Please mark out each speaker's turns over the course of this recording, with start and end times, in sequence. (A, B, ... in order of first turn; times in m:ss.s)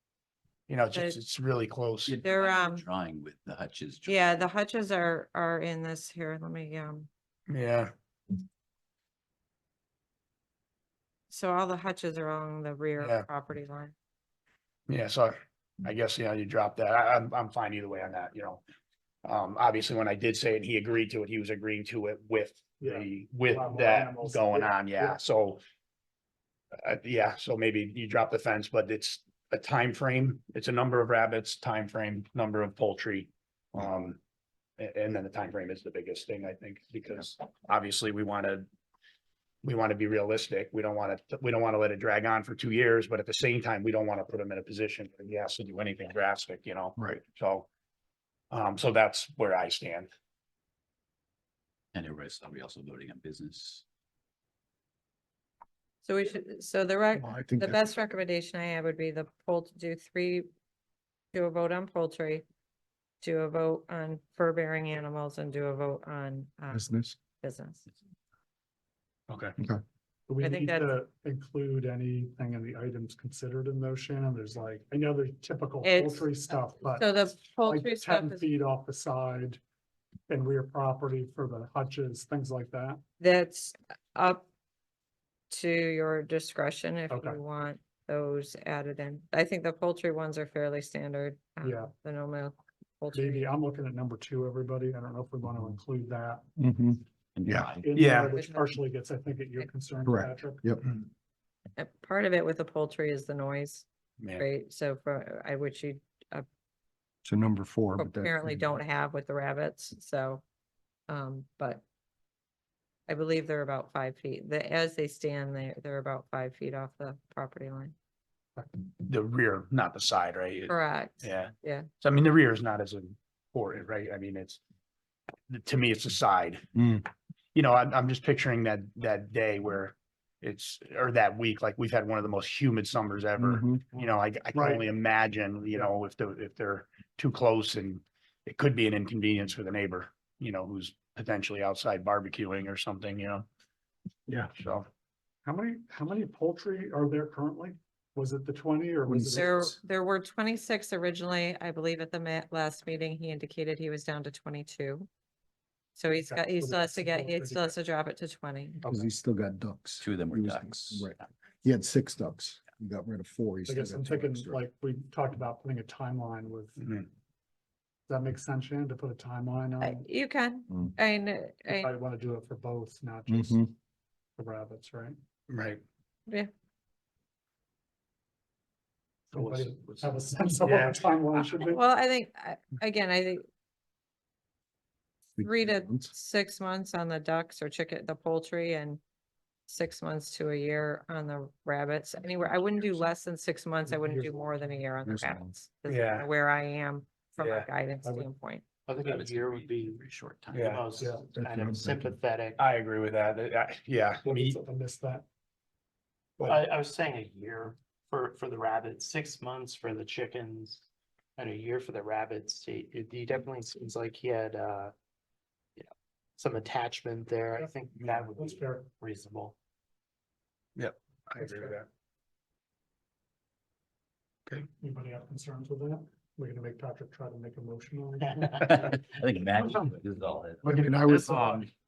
0:00.7-0:02.2 A
0:00.9-0:01.2 B
0:02.0-0:04.5 C
0:02.2-0:02.8 B
0:04.0-0:07.1 B
0:07.5-0:07.9 A
0:11.3-0:13.9 B
0:13.0-0:13.3 A
0:14.9-0:18.6 A
0:19.2-0:25.6 A
0:22.8-0:25.2 D
0:26.8-0:34.2 A
0:34.8-0:38.6 A
0:39.6-0:47.7 A
0:48.5-0:50.1 A
0:51.9-0:53.8 C
0:56.0-1:00.5 B
0:57.2-0:57.8 E
1:01.3-1:02.4 B
1:03.2-1:07.8 B
1:06.7-1:07.1 E
1:09.3-1:09.5 A
1:10.3-1:19.6 D
1:10.4-1:10.9 B
1:15.8-1:18.5 B
1:20.3-1:23.0 D
1:23.2-1:24.4 B
1:25.5-1:33.5 B
1:27.1-1:27.4 D
1:31.6-1:31.9 D
1:33.1-1:36.5 D
1:36.6-1:37.7 E
1:37.4-1:38.2 C
1:37.7-1:40.7 D
1:37.9-1:38.4 A
1:38.3-1:38.8 B
1:40.0-1:40.8 E
1:41.8-1:46.4 B
1:44.2-1:44.5 A
1:47.2-1:48.6 E
1:48.0-1:50.4 B
1:51.1-1:51.8 B
1:53.1-1:57.9 B
1:59.0-2:04.6 A
2:00.7-2:01.9 B
2:05.5-2:06.8 A
2:06.8-2:07.0 E
2:07.5-2:23.4 A
2:13.4-2:13.8 E
2:14.6-2:14.8 D
2:24.3-2:24.5 E
2:24.6-2:24.8 A
2:25.4-2:29.8 D
2:29.1-2:29.7 E
2:29.4-2:35.1 B
2:36.0-2:38.8 B
2:36.1-2:37.8 D
2:38.9-2:44.6 E
2:40.0-2:41.1 C
2:43.7-2:46.8 D
2:46.8-2:47.1 A
2:48.1-2:50.1 D
2:49.8-2:51.9 B
2:51.7-2:53.7 D
2:53.3-2:53.7 E
2:54.4-2:55.2 D
2:55.5-2:55.8 A
2:59.3-3:01.8 D
2:59.3-3:01.2 A
3:01.7-3:03.4 B
3:05.4-3:06.1 E
3:05.4-3:09.0 B
3:09.7-3:18.6 B
3:12.5-3:13.0 C
3:13.9-3:14.7 D
3:15.0-3:15.5 E
3:15.9-3:16.3 A
3:17.4-3:17.7 A
3:18.8-3:22.6 F
3:19.0-3:20.7 C
3:20.5-3:20.9 A
3:21.0-3:21.3 D
3:21.3-3:22.2 E
3:22.6-3:24.6 A
3:24.2-3:25.2 D
3:26.4-3:30.8 F
3:31.4-3:34.9 F
3:35.8-3:39.6 F
3:38.2-3:38.9 D
3:40.8-3:41.8 A
3:41.4-3:41.8 D
3:44.8-3:49.0 D
3:48.6-3:50.6 C
3:50.6-3:51.6 E
3:50.7-3:51.5 F
3:51.3-3:51.6 A